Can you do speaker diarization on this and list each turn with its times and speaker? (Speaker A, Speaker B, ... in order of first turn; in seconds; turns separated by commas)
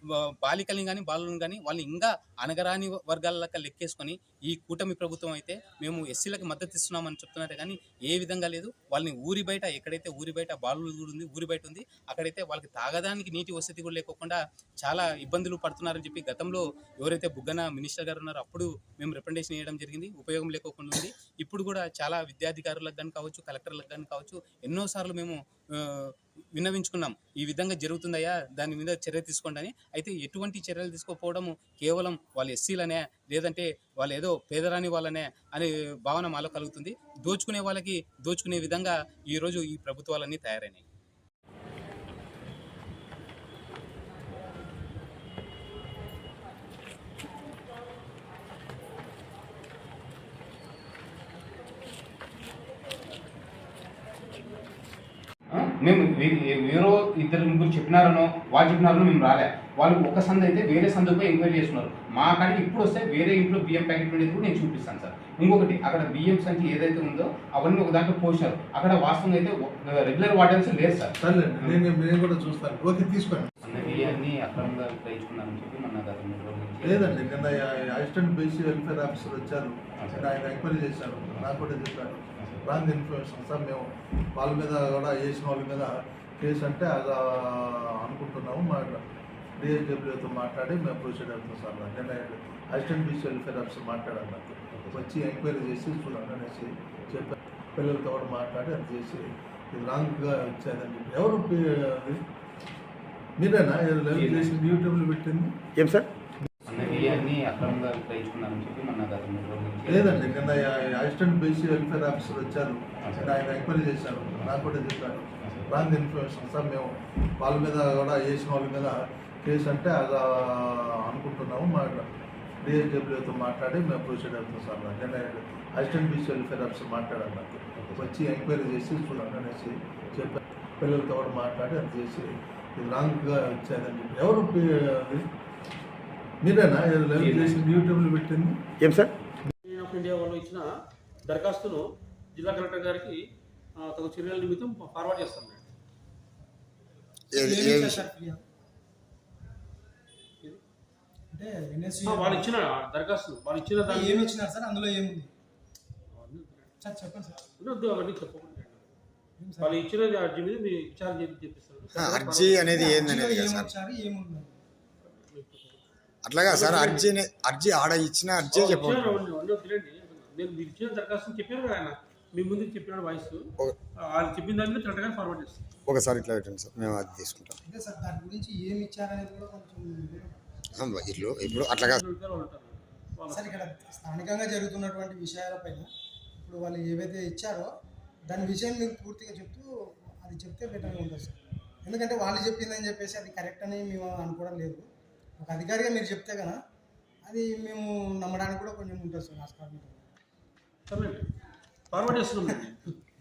Speaker A: 0.2-40.8, Speaker A: 55.5-71.8, Speaker B: 71.2-73.5, Speaker A: 73.6-77.6, Speaker B: 76.8-89.0, Speaker A: 80.0-80.4, Speaker A: 82.4-82.8, Speaker B: 89.6-102.2, Speaker A: 94.8-95.0, Speaker B: 103.4-105.5, Speaker A: 104.1-104.6, Speaker C: 105.8-106.1, Speaker B: 106.4-107.2, Speaker A: 106.7-110.4, Speaker B: 109.9-122.1, Speaker A: 113.0-113.4, Speaker A: 115.4-115.8, Speaker B: 122.6-135.2, Speaker A: 127.8-128.1, Speaker B: 136.4-138.6, Speaker A: 137.2-137.6, Speaker C: 138.8-139.1, Speaker D: 139.7-140.7, Speaker D: 141.3-143.2, Speaker D: 143.8-145.7, Speaker C: 147.3-148.1, Speaker E: 147.3-148.4, Speaker E: 151.3-152.5, Speaker D: 152.1-154.3, Speaker E: 153.8-155.3, Speaker D: 156.1-156.7, Speaker E: 156.8-157.4, Speaker D: 157.6-158.9, Speaker E: 159.4-159.8, Speaker D: 159.6-162.9, Speaker C: 161.9-163.7, Speaker E: 162.7-164.6, Speaker D: 165.1-165.8, Speaker C: 166.2-169.2, Speaker D: 166.4-167.2, Speaker D: 168.5-173.4, Speaker D: 174.1-175.7, Speaker C: 175.9-177.6, Speaker E: 177.7-180.4, Speaker C: 180.8-182.0, Speaker D: 181.5-183.6, Speaker E: 183.3-187.7, Speaker E: 188.3-189.7, Speaker E: 190.2-194.9, Speaker E: 195.4-196.6, Speaker E: 197.2-200.1, Speaker D: 200.9-201.3, Speaker D: 201.9-202.9